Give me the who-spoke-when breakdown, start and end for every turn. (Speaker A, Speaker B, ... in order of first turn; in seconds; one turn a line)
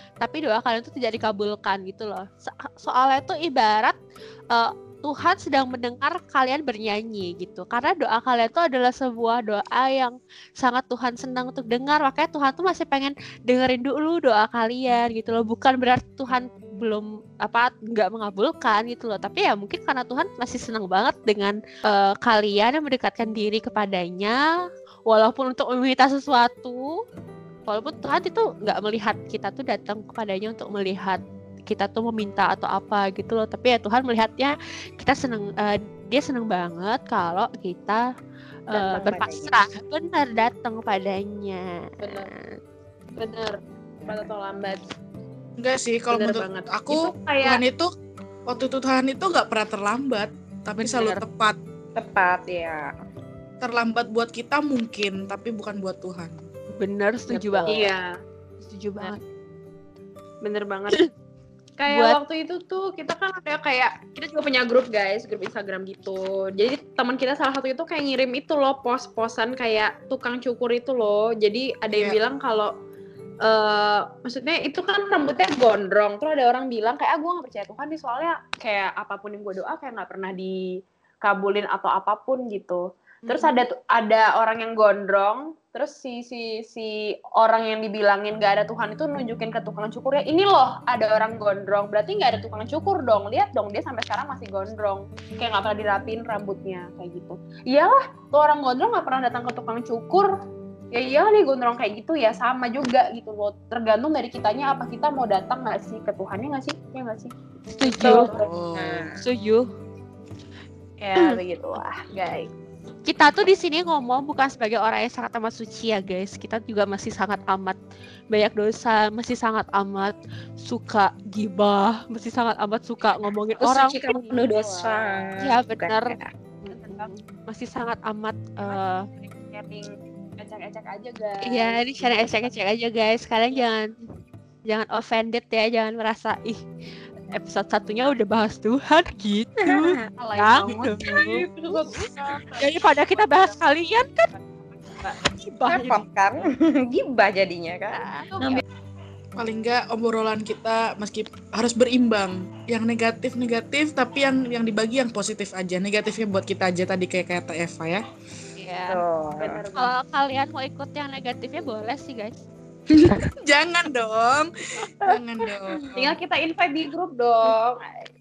Speaker A: 0.2-4.0
Speaker A: 4.5-24.4
Speaker A: 25.1-26.8
Speaker A: 27.7-38.0
Speaker A: 38.7-42.6
Speaker B: 38.7-39.6
Speaker C: 42.0-42.3
Speaker C: 43.1-44.8
Speaker B: 44.0-44.3
Speaker D: 45.6-47.9
Speaker C: 46.1-47.6
Speaker D: 48.5-51.6
Speaker A: 50.9-51.2
Speaker B: 52.0-52.9
Speaker D: 53.6-56.4
Speaker A: 56.8-57.8
Speaker B: 57.3-57.9
Speaker C: 57.7-58.1
Speaker A: 58.6-59.2
Speaker C: 60.4-61.0
Speaker C: 61.8-72.7
Speaker A: 61.9-62.2
Speaker D: 71.9-72.2
Speaker C: 73.4-80.6
Speaker C: 81.2-100.3
Speaker C: 100.9-107.3
Speaker A: 107.7-108.3
Speaker C: 108.0-108.4
Speaker B: 108.0-109.2
Speaker D: 108.4-109.1
Speaker A: 109.2-109.7
Speaker C: 111.0-112.5
Speaker A: 113.1-117.8
Speaker A: 118.3-124.0
Speaker B: 123.6-126.3
Speaker C: 124.0-125.3
Speaker A: 125.4-129.0
Speaker C: 126.7-127.1
Speaker C: 128.6-132.6
Speaker A: 131.4-133.9
Speaker A: 134.7-136.6
Speaker A: 137.3-142.1
Speaker B: 139.6-140.0
Speaker C: 140.2-143.6
Speaker A: 142.6-144.3
Speaker C: 144.3-145.2
Speaker A: 145.3-146.1
Speaker B: 145.7-148.6
Speaker A: 147.9-148.3
Speaker C: 148.3-148.6
Speaker D: 149.4-158.0
Speaker A: 158.6-159.0
Speaker B: 158.9-159.6
Speaker C: 159.4-159.9
Speaker A: 159.7-162.4
Speaker D: 163.0-165.9
Speaker C: 165.9-167.8